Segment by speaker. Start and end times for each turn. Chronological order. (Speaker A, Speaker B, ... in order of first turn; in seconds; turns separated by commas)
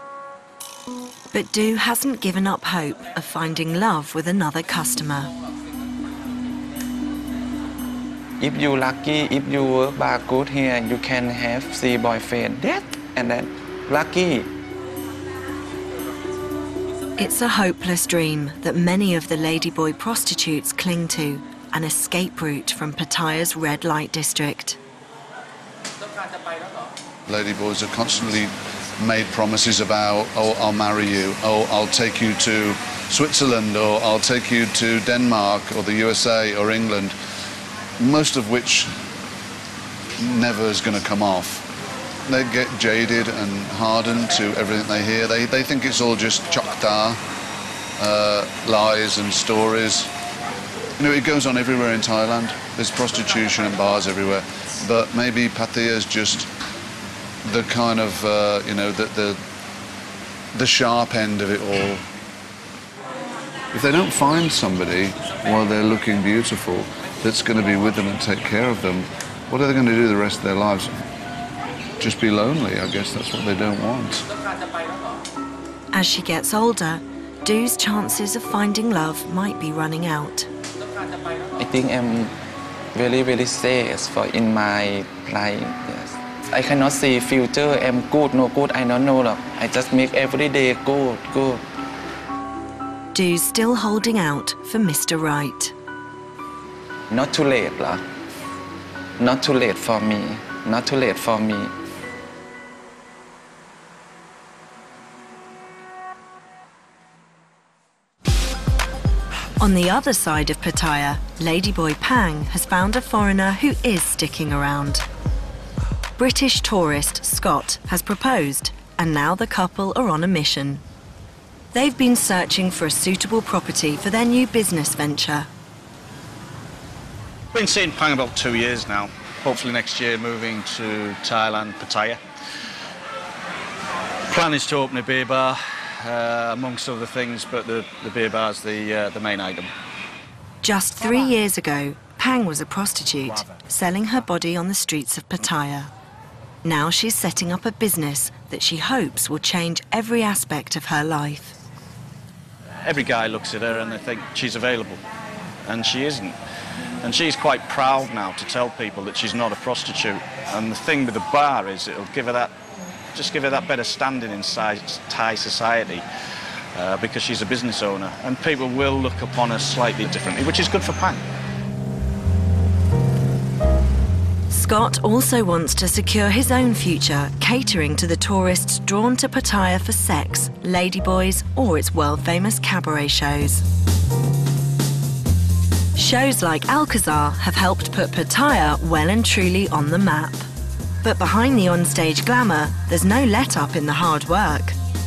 Speaker A: 1.3-5.3, Speaker B: 8.4-14.5, Speaker A: 17.2-24.8, Speaker C: 27.3-37.1, Speaker C: 38.0-39.0, Speaker C: 40.2-41.6, Speaker C: 42.3-47.2, Speaker C: 48.0-50.1, Speaker C: 51.0-56.5, Speaker C: 57.4-59.4, Speaker C: 60.5-62.0, Speaker C: 63.7-71.0, Speaker C: 72.0-74.2, Speaker A: 75.9-80.5, Speaker B: 81.6-82.3, Speaker B: 82.9-91.6, Speaker A: 93.1-95.7, Speaker B: 97.1-98.0, Speaker B: 99.2-101.7, Speaker A: 109.6-115.0, Speaker A: 116.2-120.8, Speaker A: 121.7-125.5, Speaker D: 127.5-132.2, Speaker D: 134.3-139.7, Speaker A: 140.6-145.9, Speaker A: 146.6-151.5, Speaker D: 152.8-155.0, Speaker D: 155.6-156.4, Speaker D: 157.0-162.5, Speaker D: 163.1-166.0, Speaker D: 166.7-171.2, Speaker A: 174.5-183.6, Speaker A: 185.9-190.5, Speaker A: 191.0-194.8